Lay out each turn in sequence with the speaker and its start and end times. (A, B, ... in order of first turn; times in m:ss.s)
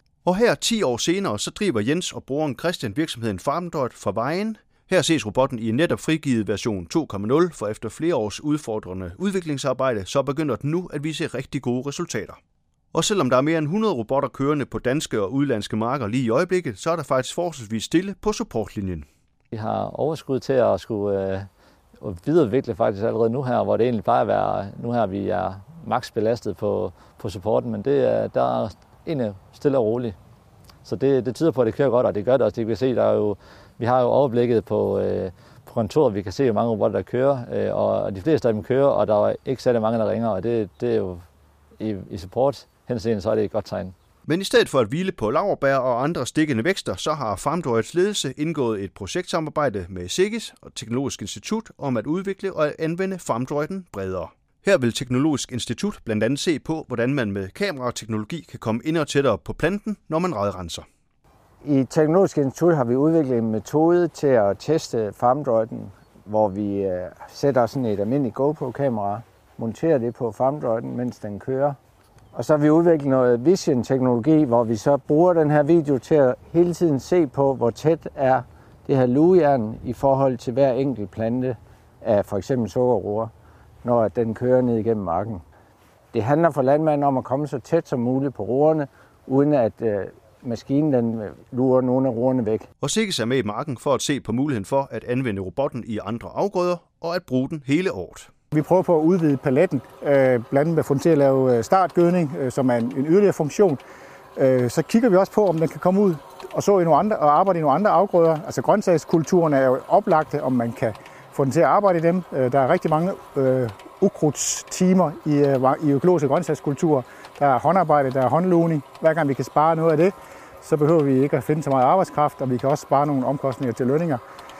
0:00.2-0:12.4 A
0:12.9-0:19.0 A
0:19.5-0:21.5 B
0:22.0-0:30.2 B
0:30.8-0:41.2 B
0:41.8-0:43.9 B
0:44.2-1:00.8 A
1:01.6-1:11.8 C
1:12.3-1:23.3 C
1:23.8-1:25.4 C
1:26.1-1:32.7 C
1:32.8-1:38.3 A
1:38.5-1:43.8 D
1:44.4-2:04.2 D